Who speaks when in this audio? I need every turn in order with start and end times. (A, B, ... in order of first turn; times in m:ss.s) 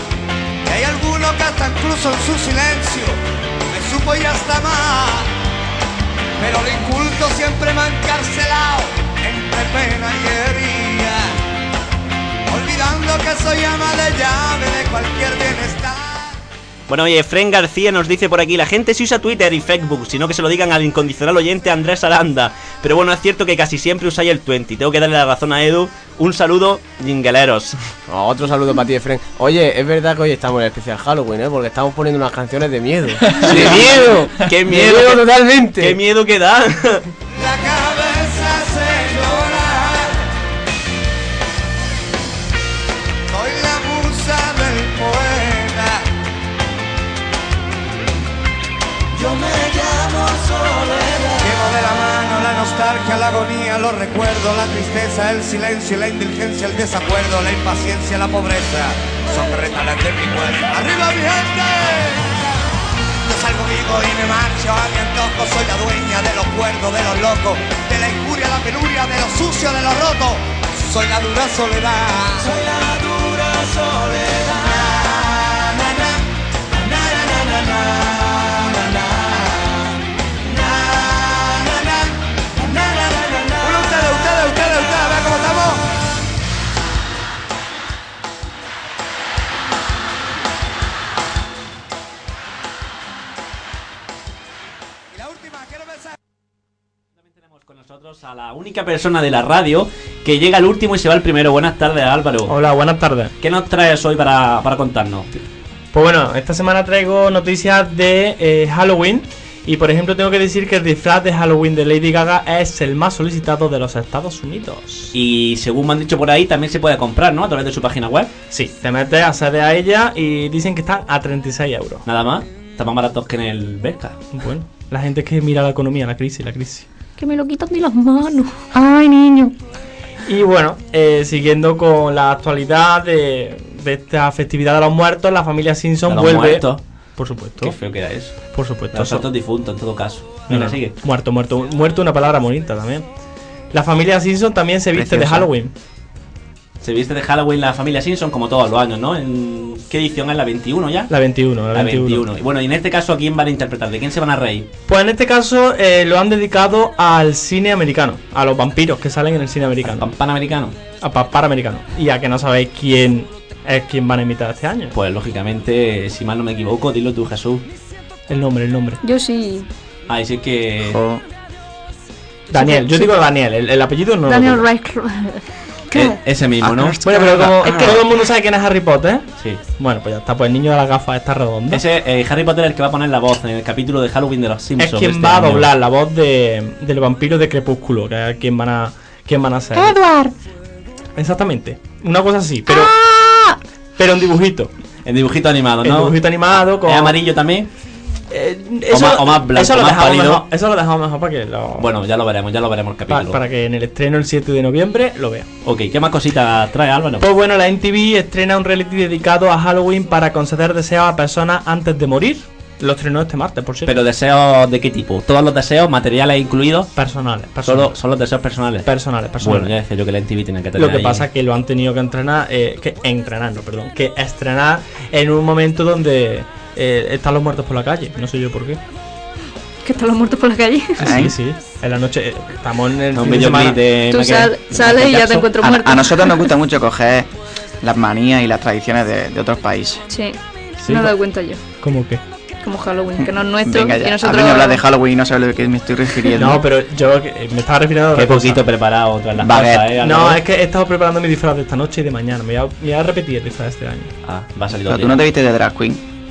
0:00.6-0:05.3 A
0:06.4-0:11.3 A
0:12.5-0:16.4 A
0:16.9-0:27.8 B
0:28.1-0:36.0 C
0:33.4-0:37.0 B
0:37.3-0:40.2 A
0:43.3-0:46.0 A
0:51.4-1:02.5 A
1:03.2-1:12.6 A
1:14.6-1:16.1 A
1:16.9-1:19.6 A
1:20.5-1:22.1 A
1:23.5-1:25.8 A
1:35.1-1:36.1 A
1:37.4-1:42.5 B
1:42.5-1:43.3 D
1:43.4-1:45.3 B
1:45.9-1:55.1 D
1:55.1-1:58.3 B
1:58.5-2:02.0 D
2:02.0-2:04.2 B
2:04.3-2:06.9 D
2:07.2-2:08.7 E
2:10.2-2:17.8 D
2:16.1-2:16.8 B
2:17.6-2:20.9 B
2:18.5-2:19.2 D
2:20.5-2:23.1 D
2:23.7-2:25.7 D
2:24.9-2:25.5 F
2:26.8-2:31.1 B
2:31.1-2:32.2 D
2:31.7-2:34.7 B
2:34.9-2:40.1 D
2:39.8-2:40.8 B
2:41.0-2:44.9 D
2:44.9-2:47.7 B
2:48.3-2:49.0 D
2:49.0-2:49.7 E
2:50.1-2:51.0 B
2:50.8-2:51.2 F
2:52.5-2:54.7 D
2:52.6-2:53.1 E
2:54.3-2:56.2 E
2:55.9-2:57.0 B
2:56.6-2:57.8 F
2:57.0-3:01.8 D
3:01.7-3:05.7 B
3:04.8-3:10.0 D
3:11.2-3:13.0 D
3:14.0-3:14.7 D
3:15.0-3:17.7 B
3:15.8-3:17.2 D
3:18.3-3:21.9 D
3:18.9-3:20.4 B
3:21.8-3:23.4 B
3:23.1-3:25.5 D
3:25.6-3:27.2 B
3:27.2-3:34.0 D
3:33.8-3:36.9 B
3:37.0-3:38.0 D
3:37.6-3:38.9 B
3:38.8-3:39.7 D
3:39.4-3:41.2 B
3:40.8-3:48.8 D
3:49.8-3:51.0 E
3:51.0-3:53.8 D
3:51.0-3:51.3 F
3:53.1-3:55.4 B
3:54.1-3:56.3 E
3:55.5-3:57.3 F
3:57.8-4:00.0 F
4:00.1-4:01.6 E
4:00.8-4:01.2 D
4:01.8-4:02.2 D
4:02.6-4:04.8 E
4:03.2-4:06.6 F
4:06.4-4:08.7 D
4:08.1-4:10.4 B
4:09.4-4:09.9 F
4:10.0-4:14.1 D
4:14.2-4:15.2 B
4:14.9-4:16.0 F